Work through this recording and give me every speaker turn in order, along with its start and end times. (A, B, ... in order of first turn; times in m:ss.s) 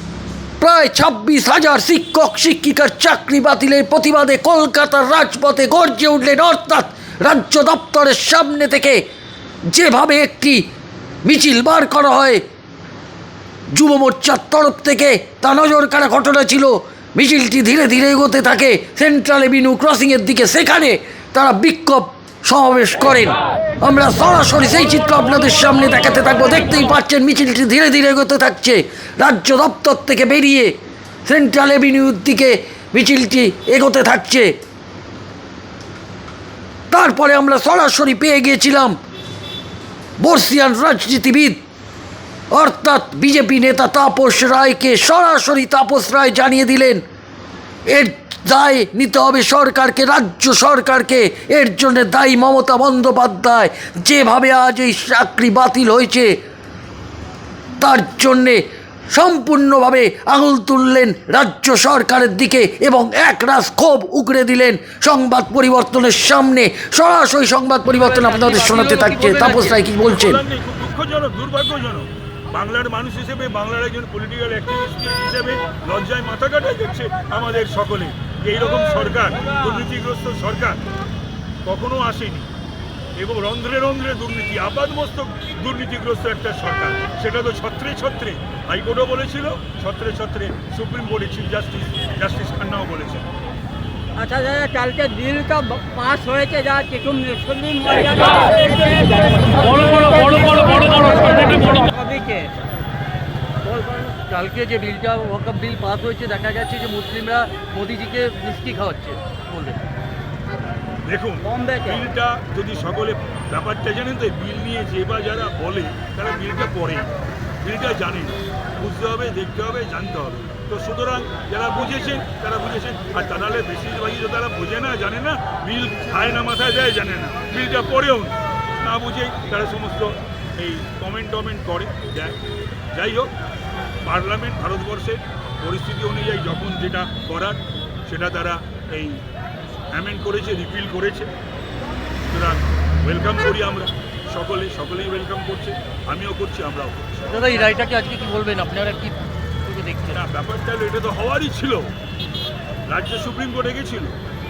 0:00.6-0:09.0 A
0:09.7-0:10.7 A
0:11.2-0:12.4 A
0:13.7-0:34.6 A
0:36.9-0:39.0 A
0:40.2-0:41.6 A
0:42.5-0:47.0 A
0:47.9-0:56.4 A
0:57.8-1:10.4 A
1:07.9-1:09.8 B
1:10.0-1:20.8 C
1:21.6-1:22.5 C
1:23.2-1:33.3 C
1:34.2-1:42.5 D
1:39.6-1:41.8 B
1:43.6-1:49.8 B
1:51.1-1:57.1 C
1:51.5-1:51.9 D
1:57.6-2:12.4 C
2:12.9-2:13.3 C
2:14.0-2:19.2 C
2:19.9-2:21.3 C
2:22.2-2:27.4 C
2:27.3-2:30.2 B
2:30.1-2:31.9 C
2:32.9-2:34.2 C